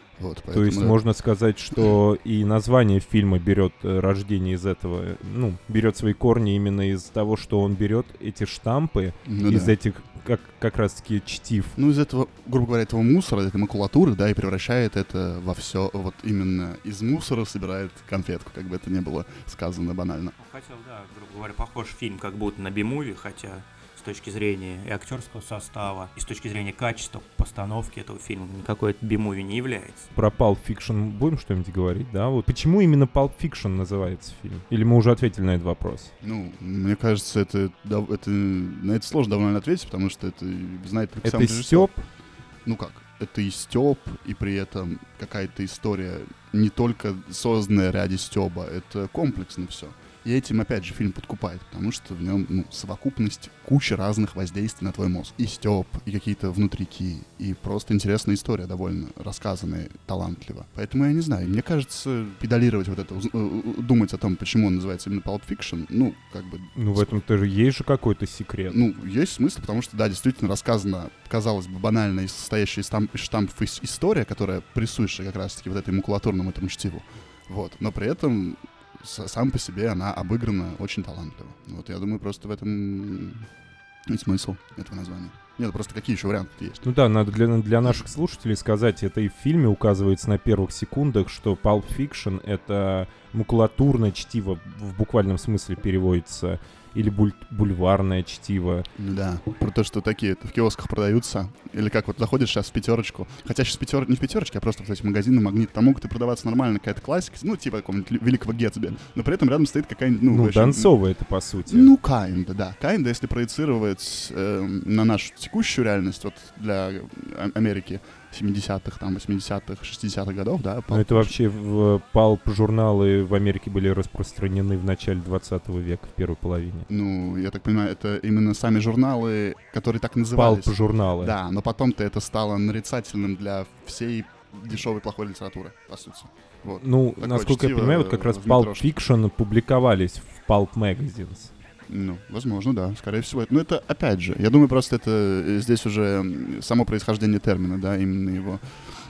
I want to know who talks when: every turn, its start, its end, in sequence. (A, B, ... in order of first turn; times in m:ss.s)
0:00.2-0:01.0 A
0:00.5-0:11.8 B
0:09.2-0:09.7 A
0:11.8-0:20.3 A
0:20.4-0:30.1 C
0:30.1-0:36.1 B
0:36.2-0:41.9 A
0:41.2-0:42.0 B
0:42.6-1:07.1 A
1:06.8-1:08.8 B
1:08.7-1:23.5 A
1:24.1-1:26.9 A
1:26.8-1:38.9 B
1:39.0-1:50.9 A
1:50.3-1:51.9 B
1:51.7-2:01.3 A
2:00.9-2:06.9 B
2:06.9-2:18.9 A
2:10.3-2:11.3 B
2:16.7-2:21.5 B
2:21.9-2:28.6 A